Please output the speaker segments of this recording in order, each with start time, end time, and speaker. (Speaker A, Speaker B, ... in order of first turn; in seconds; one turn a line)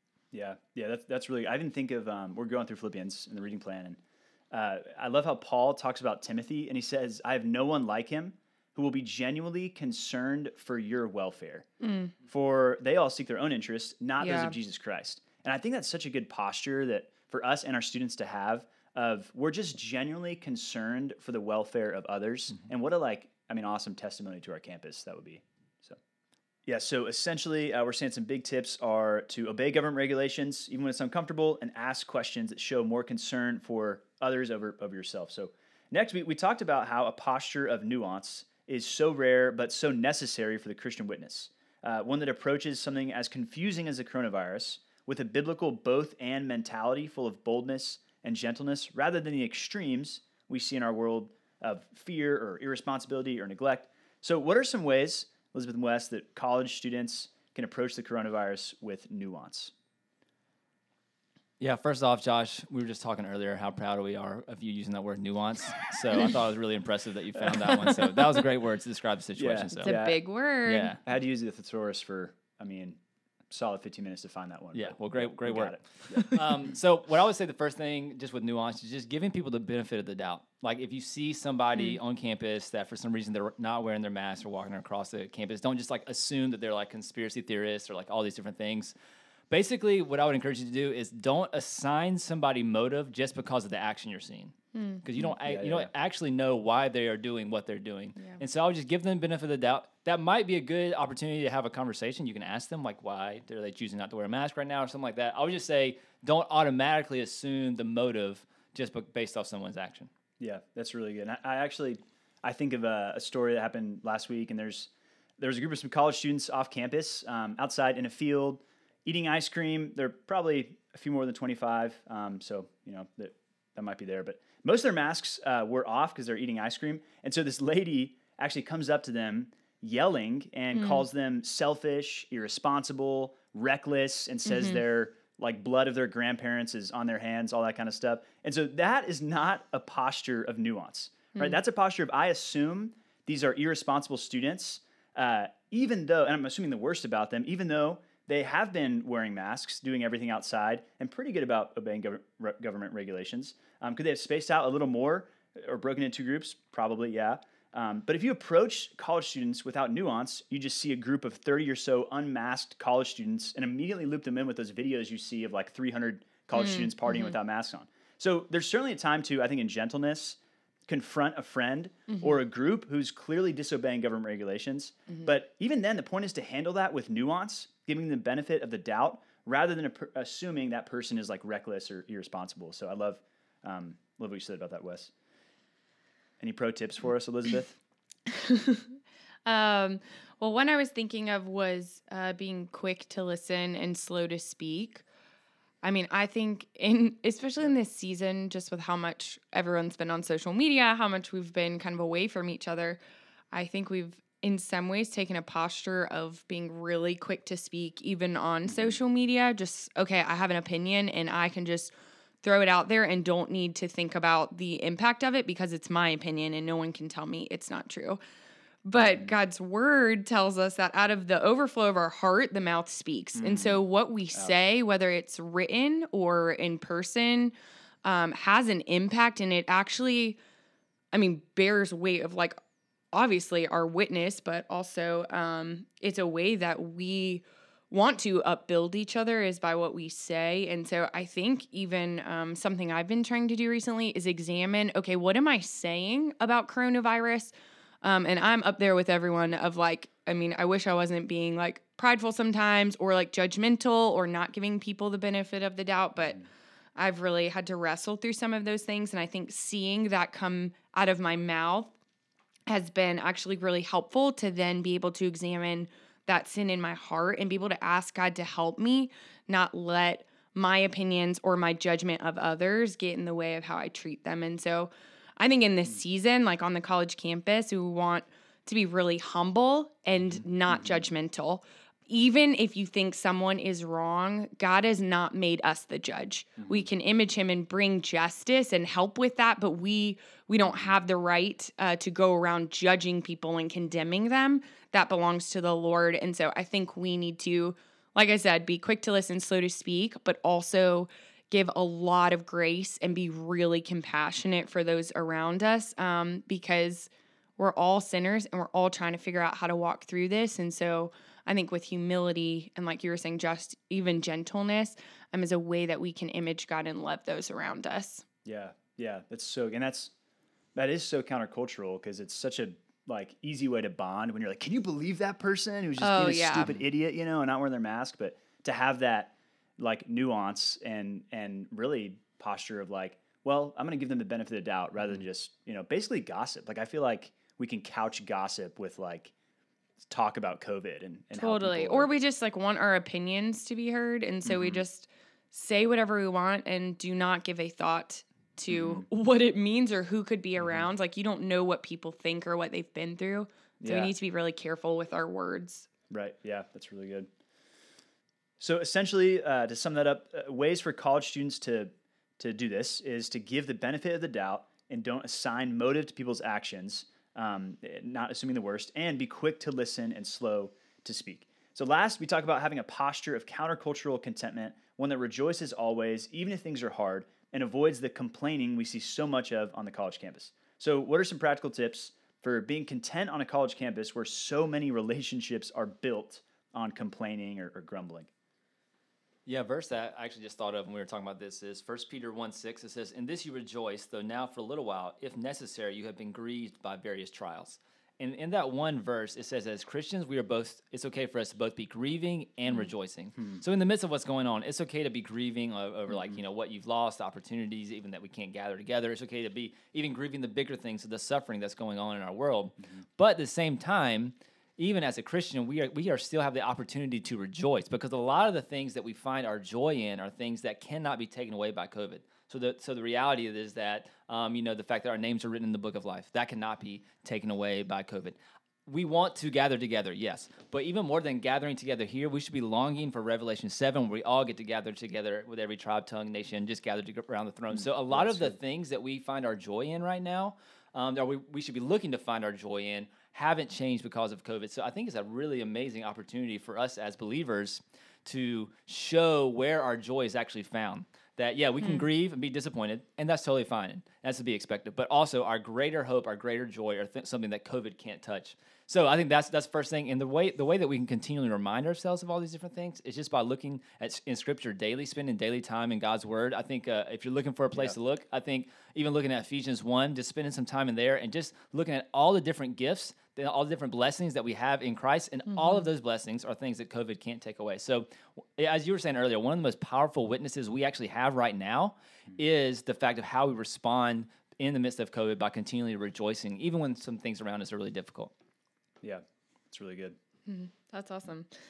Speaker A: 0.3-4.0
Speaker A: 4.5-11.7
Speaker B: 11.8-12.1
Speaker A: 12.2-26.0
Speaker B: 14.2-14.6
Speaker A: 26.7-59.7
Speaker C: 61.6-70.0
Speaker A: 69.4-70.2
Speaker B: 69.8-71.0
Speaker C: 70.7-71.0
Speaker A: 71.0-73.0
Speaker A: 73.5-76.4
Speaker C: 74.7-88.9
Speaker C: 89.5-110.1
Speaker B: 94.8-95.0
Speaker A: 95.2-95.9
Speaker B: 98.2-98.4
Speaker A: 110.4-185.1
Speaker B: 130.8-131.1
Speaker B: 134.5-134.8
Speaker B: 166.6-167.3
Speaker A: 186.4-187.8
Speaker B: 188.3-188.9
Speaker B: 189.4-195.0
Speaker B: 195.8-203.0
Speaker B: 203.5-218.2
Speaker A: 208.7-209.0
Speaker B: 218.8-230.4
Speaker A: 218.9-219.3
Speaker A: 223.4-223.8
Speaker B: 231.1-232.6
Speaker B: 233.1-256.4
Speaker B: 257.0-261.9
Speaker B: 262.7-318.2
Speaker A: 280.7-281.1
Speaker A: 286.6-286.9
Speaker A: 290.6-290.9
Speaker A: 318.4-320.1
Speaker A: 320.8-339.3
Speaker B: 326.0-326.7
Speaker A: 340.1-342.1
Speaker B: 341.3-355.9
Speaker A: 344.4-344.8
Speaker A: 348.7-349.1
Speaker A: 350.6-350.9
Speaker A: 353.8-354.1
Speaker A: 356.1-357.3
Speaker A: 358.6-388.3
Speaker C: 389.5-488.3
Speaker A: 403.4-403.6
Speaker A: 438.1-438.6
Speaker A: 489.0-490.2
Speaker B: 490.5-491.5